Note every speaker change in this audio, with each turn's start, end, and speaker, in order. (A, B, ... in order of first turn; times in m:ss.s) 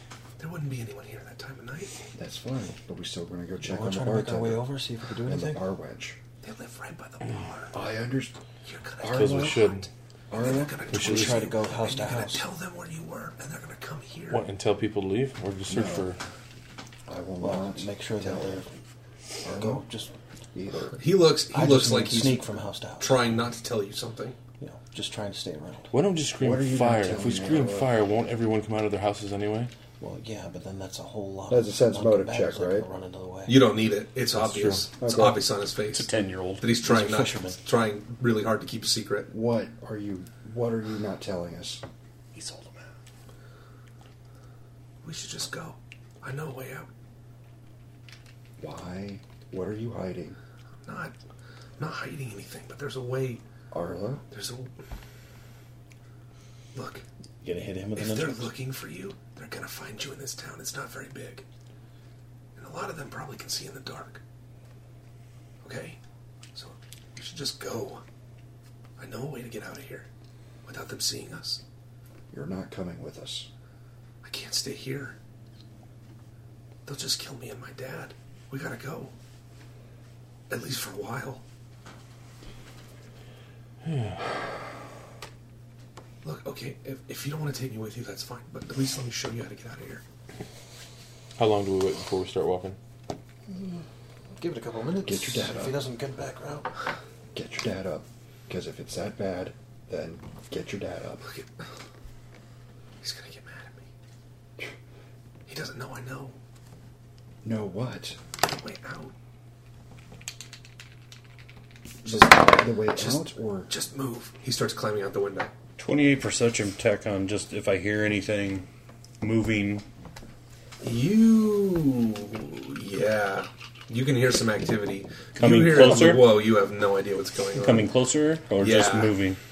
0:00.4-0:01.9 A
0:02.1-0:04.7 B
0:03.6-0:05.6 C
0:05.2-0:06.2 B
0:06.4-0:07.8 A
0:07.7-0:08.3 B
0:08.6-0:09.8 A
0:09.0-0:09.7 B
0:09.1-0:09.9 D
0:10.3-0:10.8 B
0:10.4-0:14.4 A
0:10.9-0:11.4 D
0:10.9-0:12.4 C
0:14.3-0:16.2 D
0:15.7-0:16.1 B
0:17.1-0:18.6 B
0:17.4-0:18.7 C
0:19.4-0:19.8 B
0:19.5-0:20.1 C
0:20.5-0:21.0 B
0:21.0-0:24.4 A
0:21.5-0:23.2 C
0:24.6-0:25.9 C
0:25.9-0:29.7 D
0:26.4-0:27.9 B
0:30.0-0:33.6 C
0:31.5-0:32.8 B
0:33.5-0:36.1 A
0:34.3-0:34.8 D
0:35.0-0:35.4 B
0:35.9-0:36.6 E
0:36.6-0:39.3 A
0:36.8-0:37.6 C
0:39.3-0:41.8 B
0:42.3-0:42.8 E
0:45.0-0:46.9 A
0:48.6-0:50.4 B
0:50.8-0:51.1 A
0:51.8-0:53.4 A
0:53.7-0:54.2 B
0:54.3-0:54.7 A
0:56.7-0:57.0 A
0:57.4-0:58.5 C
0:58.0-1:01.4 A
1:02.6-1:04.2 A
1:05.6-1:06.0 A
1:06.5-1:08.0 A
1:09.0-1:10.1 A
1:10.6-1:11.6 A
1:12.3-1:13.5 B
1:14.2-1:15.2 A
1:16.8-1:19.1 A
1:20.5-1:21.4 A
1:23.8-1:24.2 D
1:26.2-1:30.0 A
1:31.4-1:32.8 D
1:33.5-1:33.8 C
1:34.4-1:36.7 C
1:35.0-1:35.8 B
1:37.3-1:41.2 B
1:41.2-1:41.5 A
1:43.0-1:43.8 A
1:45.5-1:46.3 A
1:47.4-1:48.2 B
1:48.4-1:49.1 A
1:52.0-1:53.7 B
1:52.1-1:55.5 A
1:55.8-1:58.6 E
1:59.2-1:59.8 E
2:00.8-2:07.9 A
2:05.4-2:06.4 E
2:07.6-2:09.4 E
2:08.6-2:09.2 A